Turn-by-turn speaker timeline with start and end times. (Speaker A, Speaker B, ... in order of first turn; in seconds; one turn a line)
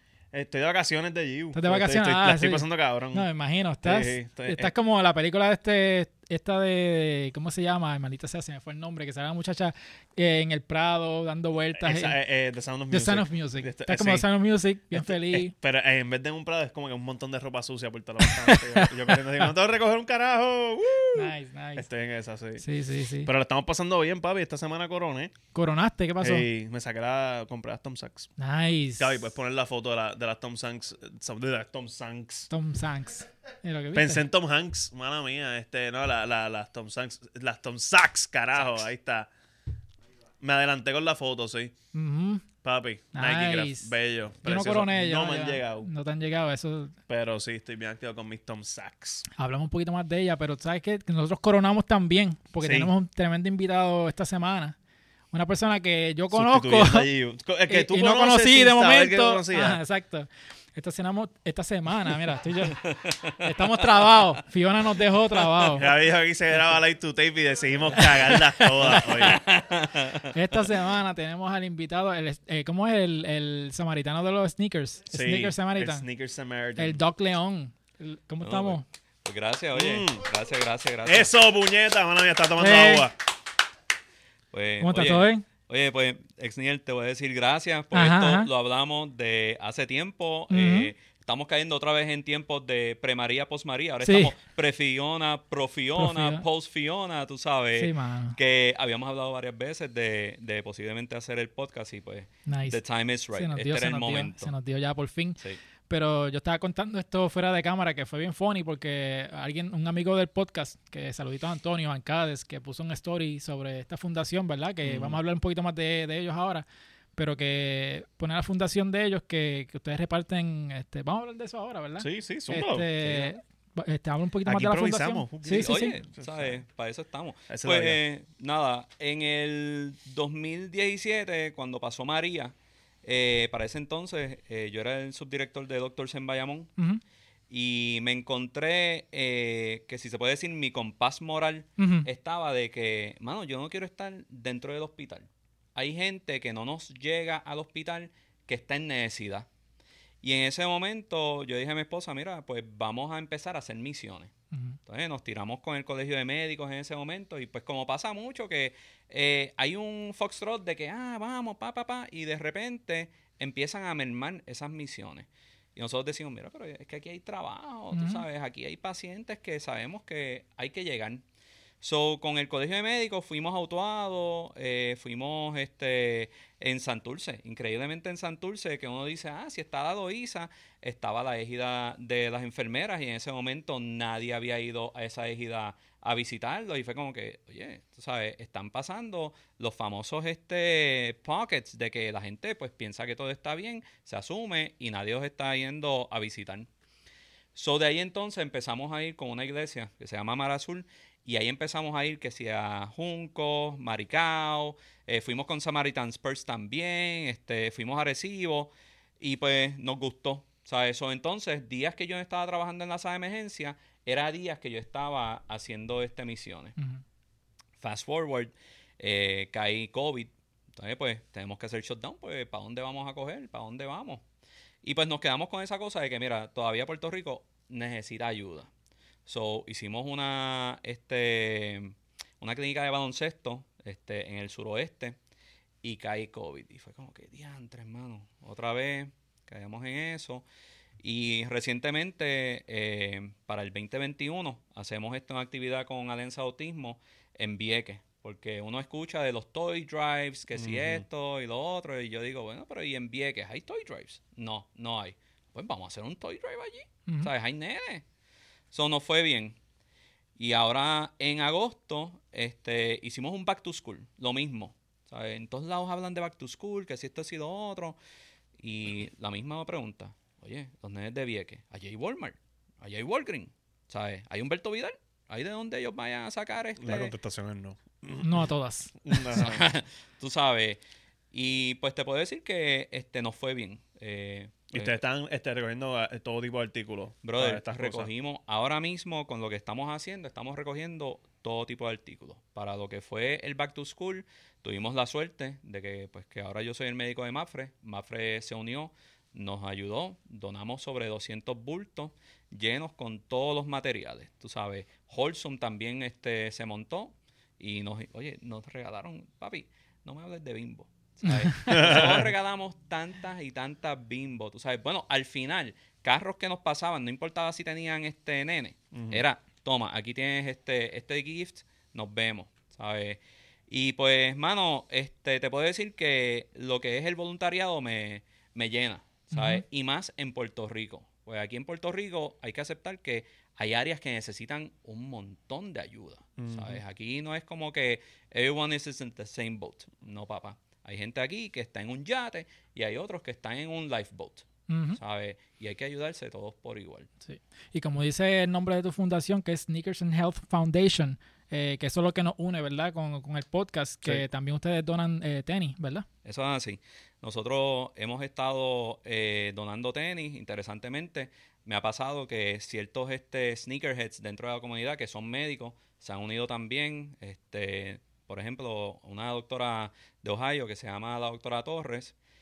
Speaker A: 0.3-3.3
Speaker B: 1.5-12.2
Speaker A: 3.8-4.7
Speaker A: 11.8-14.3
Speaker B: 12.9-15.5
Speaker A: 14.9-22.6
Speaker B: 18.2-19.5
Speaker B: 21.1-21.9
Speaker B: 22.6-23.3
Speaker A: 23.2-25.3
Speaker B: 25.5-26.5
Speaker A: 26.2-28.3
Speaker B: 28.4-29.2
Speaker A: 29.0-32.5
Speaker B: 32.5-34.2
Speaker A: 33.9-39.3
Speaker C: 38.6-38.8
Speaker A: 40.4-41.7
Speaker B: 41.9-42.5
Speaker A: 42.6-45.9
Speaker B: 43.1-43.9
Speaker B: 44.4-47.0
Speaker A: 47.1-49.3
Speaker B: 49.3-54.8
Speaker A: 52.6-52.9
Speaker B: 55.3-57.1
Speaker A: 56.3-59.8
Speaker B: 57.7-65.9
Speaker C: 62.8-64.2
Speaker A: 65.8-69.4
Speaker B: 68.0-69.3
Speaker C: 68.9-70.5
Speaker B: 70.3-76.1
Speaker A: 75.1-77.0
Speaker B: 76.8-78.8
Speaker C: 78.4-81.3
Speaker A: 79.7-80.3
Speaker A: 81.0-83.2
Speaker B: 82.6-83.1
Speaker C: 84.5-104.5
Speaker B: 84.8-85.5
Speaker B: 87.9-88.5
Speaker B: 90.5-90.9
Speaker B: 94.0-94.3
Speaker B: 96.0-96.4
Speaker B: 97.8-98.4
Speaker B: 102.5-102.8
Speaker B: 103.3-116.7
Speaker A: 114.8-115.2
Speaker B: 117.2-126.0
Speaker A: 122.0-123.3
Speaker A: 124.5-126.6
Speaker C: 125.4-136.7
Speaker A: 127.5-128.0
Speaker C: 137.5-149.5
Speaker B: 141.8-142.1
Speaker C: 150.2-154.3
Speaker B: 154.5-154.8
Speaker C: 154.9-171.2
Speaker B: 167.9-168.2
Speaker C: 171.8-196.7
Speaker C: 197.6-216.8
Speaker B: 216.8-217.0
Speaker C: 217.8-224.2
Speaker C: 224.8-228.7
Speaker C: 229.3-235.2
Speaker C: 235.8-240.4
Speaker C: 241.0-258.0
Speaker A: 250.6-251.1
Speaker C: 258.7-259.6
Speaker C: 260.4-268.0
Speaker C: 268.6-277.1
Speaker A: 276.8-278.5
Speaker B: 278.2-279.2
Speaker A: 279.0-279.7
Speaker C: 279.3-280.8
Speaker C: 281.3-285.0
Speaker A: 284.7-288.1
Speaker C: 287.2-347.1
Speaker B: 311.3-311.8
Speaker A: 311.7-312.3
Speaker A: 318.9-319.2
Speaker B: 329.3-329.6
Speaker A: 336.4-336.8
Speaker B: 344.7-345.0
Speaker B: 347.2-356.1
Speaker C: 356.2-372.1